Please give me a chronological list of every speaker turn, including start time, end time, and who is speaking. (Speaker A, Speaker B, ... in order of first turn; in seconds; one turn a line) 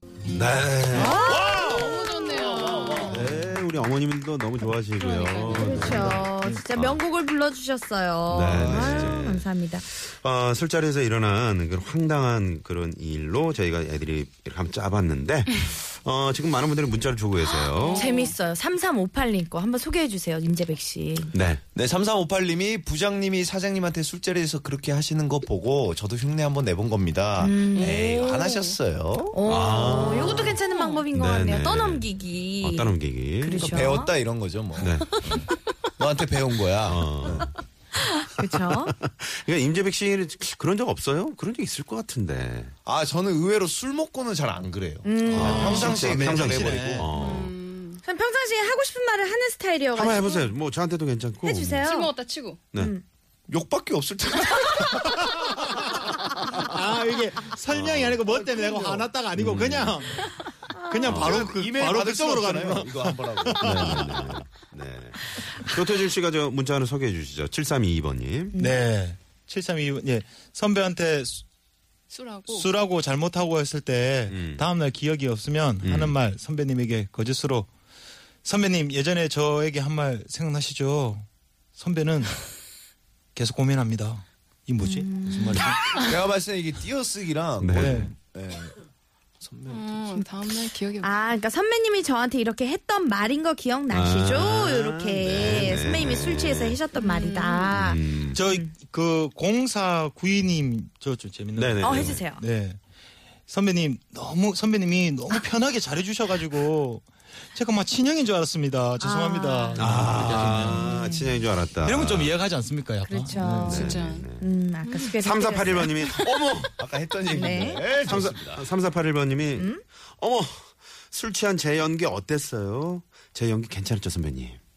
Speaker A: 0.3-1.2
Speaker B: 0.9-1.8
Speaker C: 1.0-3.3
Speaker D: 1.4-3.2
Speaker A: 3.1-7.0
Speaker D: 5.0-5.8
Speaker B: 5.5-9.8
Speaker E: 5.7-6.6
Speaker A: 8.3-18.1
Speaker D: 17.6-18.3
Speaker B: 17.9-21.3
Speaker A: 21.3-21.6
Speaker C: 21.7-29.6
Speaker B: 27.4-28.0
Speaker D: 27.8-28.8
Speaker B: 29.3-34.1
Speaker A: 29.5-32.1
Speaker D: 30.7-31.0
Speaker A: 32.6-33.8
Speaker C: 33.5-37.5
Speaker A: 34.8-35.1
Speaker A: 36.8-37.5
Speaker B: 38.0-38.9
Speaker A: 38.5-42.7
Speaker C: 42.9-47.1
Speaker B: 45.0-45.9
Speaker A: 45.3-47.5
Speaker E: 45.3-47.1
Speaker D: 47.1-48.0
Speaker B: 48.0-50.5
Speaker A: 50.0-51.9
Speaker B: 51.4-52.1
Speaker D: 51.8-52.6
Speaker B: 52.8-53.0
Speaker C: 53.5-55.5
Speaker E: 55.1-64.4
Speaker A: 57.7-58.2
Speaker C: 58.3-59.1
Speaker A: 59.4-60.0
Speaker B: 60.7-61.2
Speaker A: 61.0-61.4
Speaker C: 61.1-64.0
Speaker A: 63.6-68.5
Speaker E: 68.6-71.4
Speaker D: 72.1-72.7
Speaker E: 72.5-77.7
Speaker A: 74.3-74.6
Speaker A: 75.8-76.2
Speaker E: 78.4-82.4
Speaker E: 83.3-85.8
Speaker B: 84.8-85.7
Speaker C: 85.9-88.8
Speaker A: 87.6-88.1
Speaker E: 87.7-88.1
Speaker C: 89.4-90.5
Speaker D: 89.7-91.1
Speaker B: 91.0-98.7
Speaker A: 93.9-96.8
Speaker D: 97.0-97.7
Speaker A: 97.7-98.4
Speaker E: 98.3-102.8
Speaker A: 101.6-102.2
Speaker B: 101.8-102.4
Speaker E: 103.5-110.9
Speaker B: 109.0-109.9
Speaker A: 109.8-112.3
Speaker B: 110.7-111.3
Speaker E: 111.8-113.9
Speaker B: 113.1-116.2
Speaker A: 113.7-114.5
Speaker D: 113.7-114.2
Speaker A: 115.0-116.7
Speaker C: 116.8-118.7
Speaker B: 117.3-117.9
Speaker A: 118.0-124.6
Speaker B: 119.6-119.8